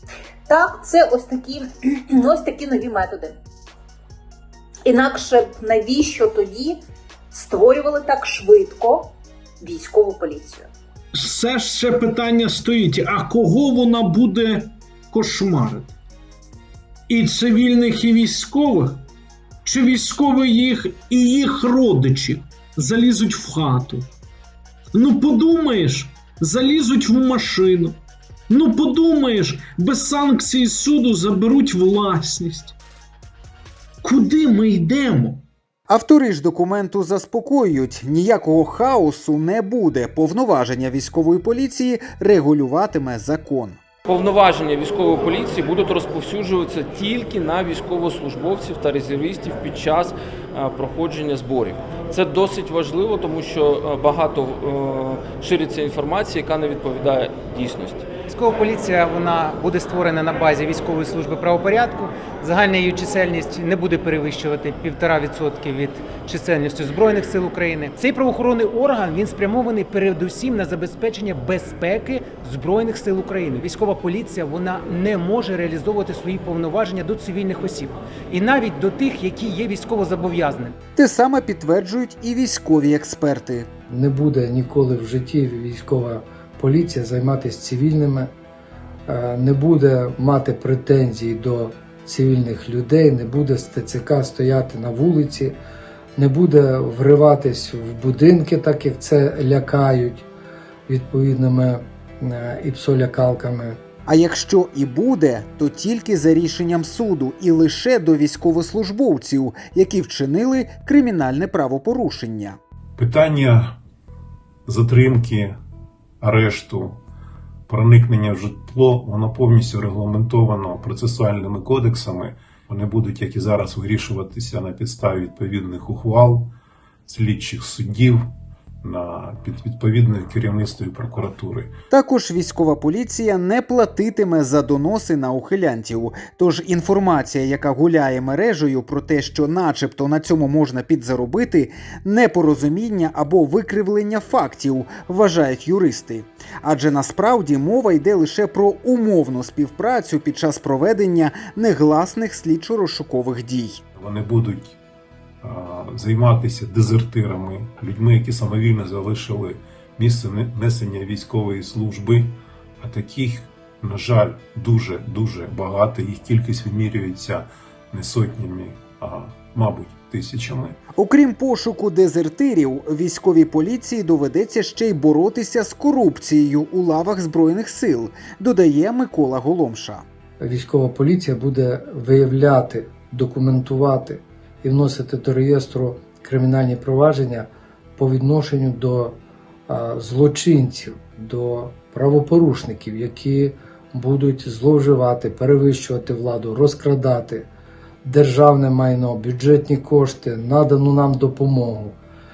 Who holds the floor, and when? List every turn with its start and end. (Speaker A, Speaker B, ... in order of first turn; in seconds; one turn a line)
Speaker A: 0.5-3.4
Speaker A: 4.9-6.8
Speaker A: 7.3-10.7
Speaker B: 11.2-15.9
Speaker B: 17.1-19.0
Speaker B: 19.6-24.1
Speaker B: 24.9-28.0
Speaker B: 28.5-32.8
Speaker B: 34.0-35.4
Speaker C: 35.9-43.8
Speaker D: 44.1-58.1
Speaker E: 58.3-80.8
Speaker C: 81.0-83.7
Speaker F: 83.9-88.3
Speaker F: 89.1-95.6
Speaker F: 96.2-100.3
Speaker F: 100.9-103.8
Speaker C: 104.1-112.6
Speaker G: 113.0-113.8
Speaker G: 114.7-115.6
Speaker G: 116.2-117.0
Speaker G: 117.7-126.5
Speaker G: 127.1-128.3
Speaker G: 128.8-131.7
Speaker C: 131.9-153.8
Speaker G: 154.0-154.8
Speaker G: 155.4-170.8
Speaker C: 171.0-180.0
Speaker F: 180.4-197.5
Speaker F: 198.0-202.0